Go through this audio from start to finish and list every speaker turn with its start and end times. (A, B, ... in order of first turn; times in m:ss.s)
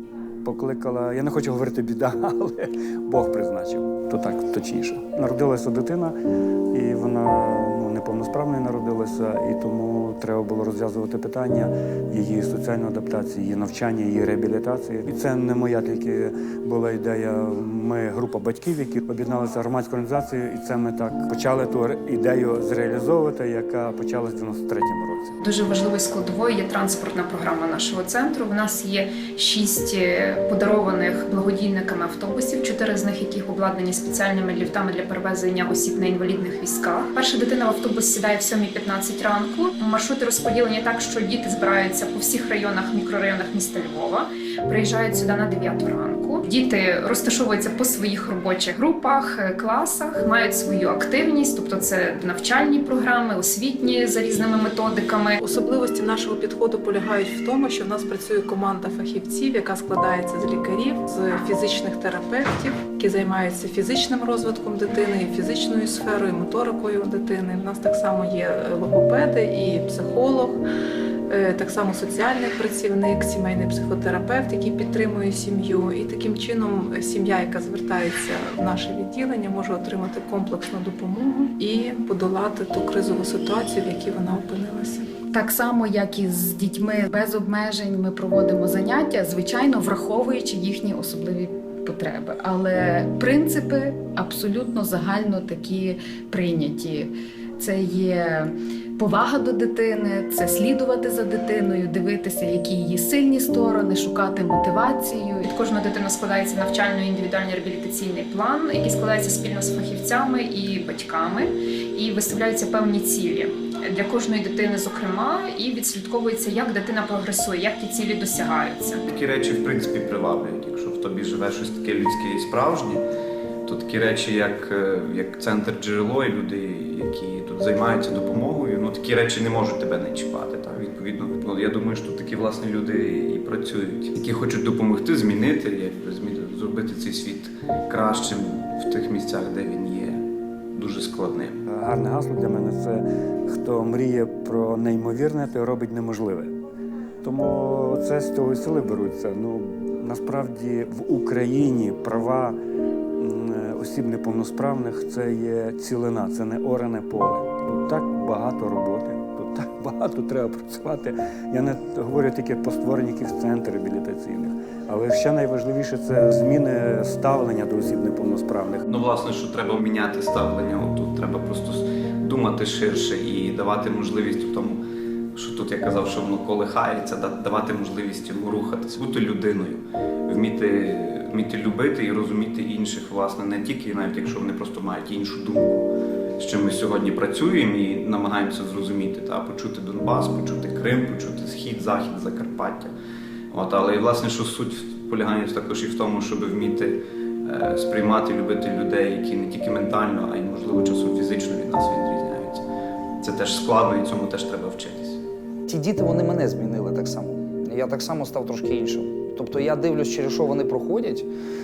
0:00.4-0:06.2 A
0:06.7-0:25.4 A
0:25.4-0:55.4 B
0:55.4-1:10.6 C
1:11.3-1:25.1 C
1:25.3-1:45.4 D
1:45.4-1:59.0 B
1:59.1-2:03.0 E
2:03.7-2:20.2 E
2:20.7-2:21.6 E
2:21.7-2:26.5 A
2:27.2-2:32.6 A
2:33.2-2:48.8 A
2:48.9-2:54.8 E
2:55.3-3:12.9 E
3:13.5-3:22.6 E
3:23.2-3:25.2 E
3:25.7-3:31.3 F